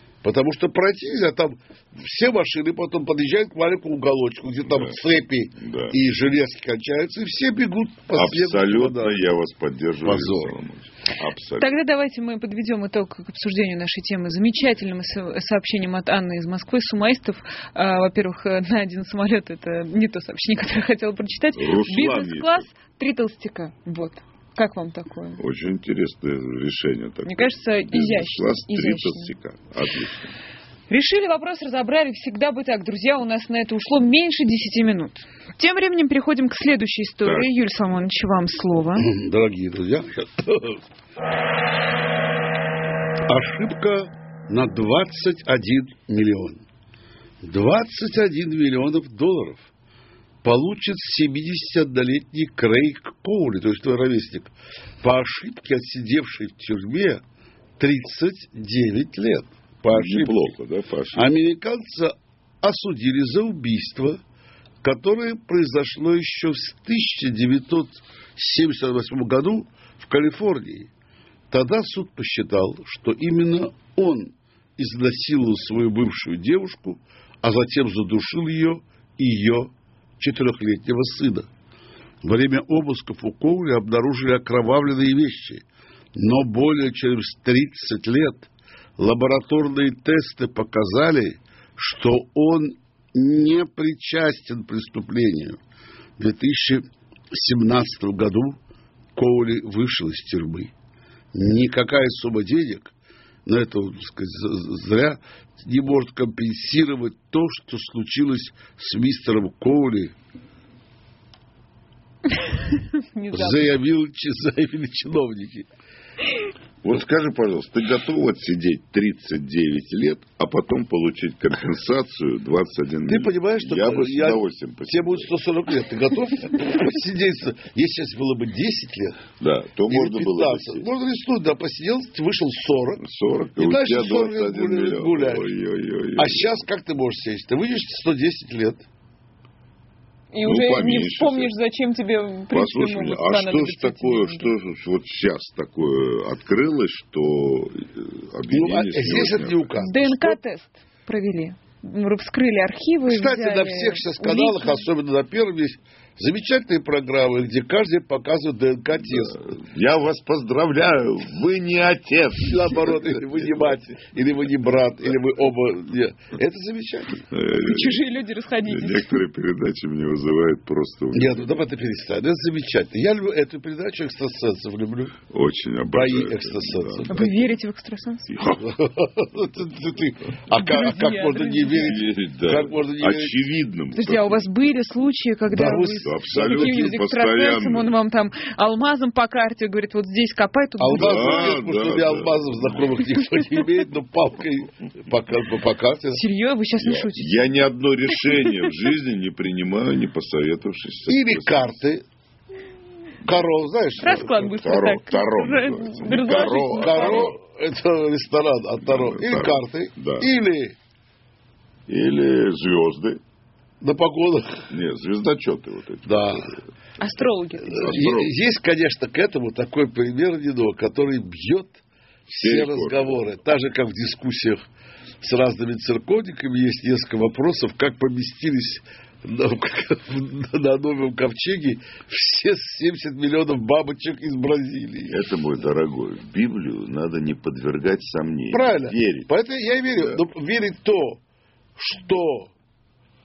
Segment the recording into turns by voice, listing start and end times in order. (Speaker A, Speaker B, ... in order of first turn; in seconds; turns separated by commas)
Speaker A: 0.2-9.2, Speaker B: 4.7-5.0, Speaker B: 5.6-6.0, Speaker B: 8.1-11.7, Speaker A: 10.0-10.5, Speaker C: 11.6-25.4, Speaker B: 21.5-22.7, Speaker B: 25.4-30.4, Speaker C: 27.3-29.3, Speaker C: 30.9-39.1, Speaker B: 37.2-37.5, Speaker A: 39.0-40.8, Speaker A: 43.3-46.6, Speaker A: 47.4-49.7, Speaker A: 50.4-57.2, Speaker A: 57.8-60.5, Speaker B: 59.9-61.3, Speaker A: 61.1-64.2, Speaker A: 64.8-70.9, Speaker A: 71.5-81.5, Speaker A: 82.2-85.6, Speaker A: 86.2-95.6, Speaker A: 96.2-98.6, Speaker A: 99.2-100.7, Speaker A: 101.3-102.9, Speaker A: 103.5-110.1, Speaker C: 112.4-113.7, Speaker A: 113.3-115.7, Speaker B: 116.8-125.3, Speaker A: 123.0-129.2, Speaker B: 129.4-130.9, Speaker A: 129.9-133.0, Speaker B: 133.0-136.6, Speaker A: 133.6-135.5, Speaker A: 136.2-138.8, Speaker C: 140.3-144.5, Speaker B: 140.4-141.5, Speaker B: 142.5-149.7, Speaker A: 148.5-150.4, Speaker C: 149.8-154.8, Speaker A: 153.1-159.4, Speaker B: 158.9-164.2, Speaker A: 162.4-167.2, Speaker B: 167.3-168.0, Speaker C: 167.6-169.2, Speaker B: 168.6-171.6, Speaker A: 171.1-175.2, Speaker B: 175.3-177.2, Speaker A: 175.9-177.4, Speaker C: 177.1-178.3, Speaker B: 178.3-178.6, Speaker A: 178.5-183.4, Speaker C: 180.5-182.0, Speaker B: 181.8-184.5, Speaker C: 183.9-191.6, Speaker A: 185.5-187.0, Speaker B: 185.6-187.9, Speaker A: 190.8-196.2, Speaker B: 190.9-193.0, Speaker C: 196.1-197.4, Speaker B: 196.8-201.8, Speaker A: 201.1-202.0, Speaker A: 203.2-204.5, Speaker C: 204.0-207.3, Speaker B: 204.3-207.4, Speaker A: 206.8-210.8, Speaker B: 208.8-210.3, Speaker B: 211.9-213.2, Speaker A: 213.8-214.7, Speaker B: 214.7-216.6, Speaker A: 216.0-216.5, Speaker C: 217.0-218.1, Speaker A: 217.7-224.6, Speaker B: 217.7-218.3, Speaker B: 222.4-223.2, Speaker A: 225.2-235.2, Speaker B: 235.1-239.3, Speaker A: 238.5-241.2, Speaker A: 241.8-242.5